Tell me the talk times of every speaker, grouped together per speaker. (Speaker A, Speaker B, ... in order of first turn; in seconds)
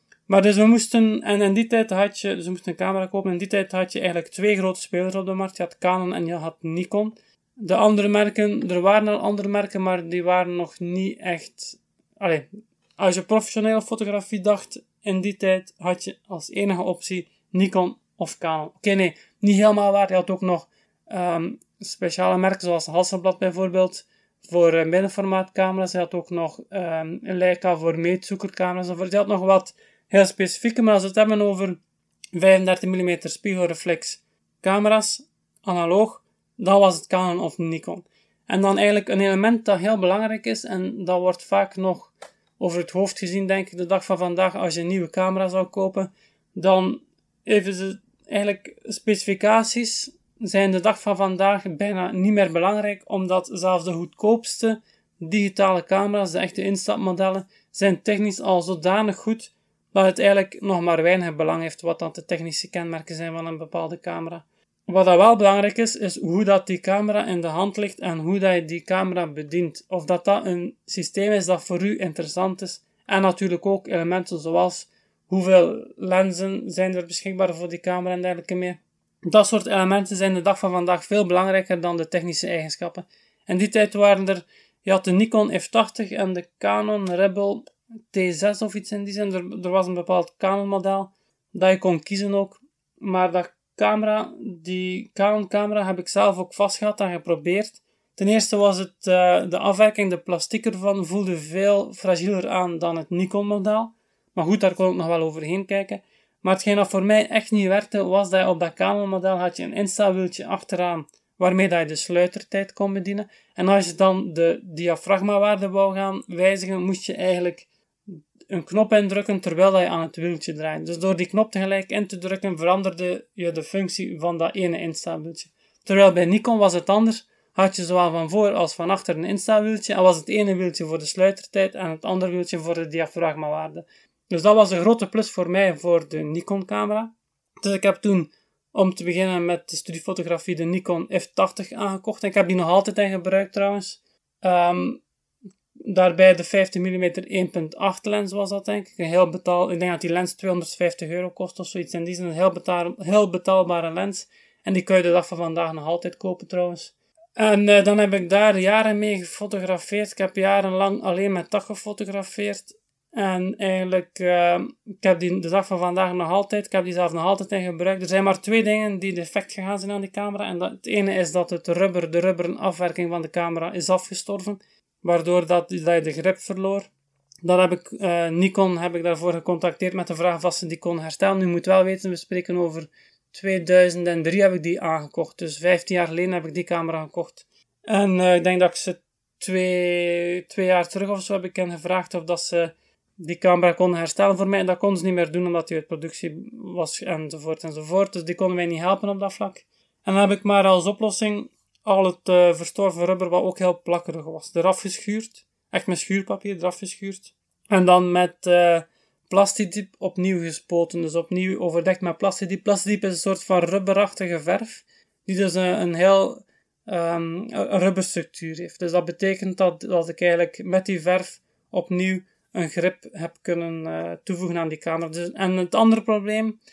Speaker A: 0.3-31.8, 32.3-117.7, 118.5-145.0, 145.8-176.9, 177.4-226.6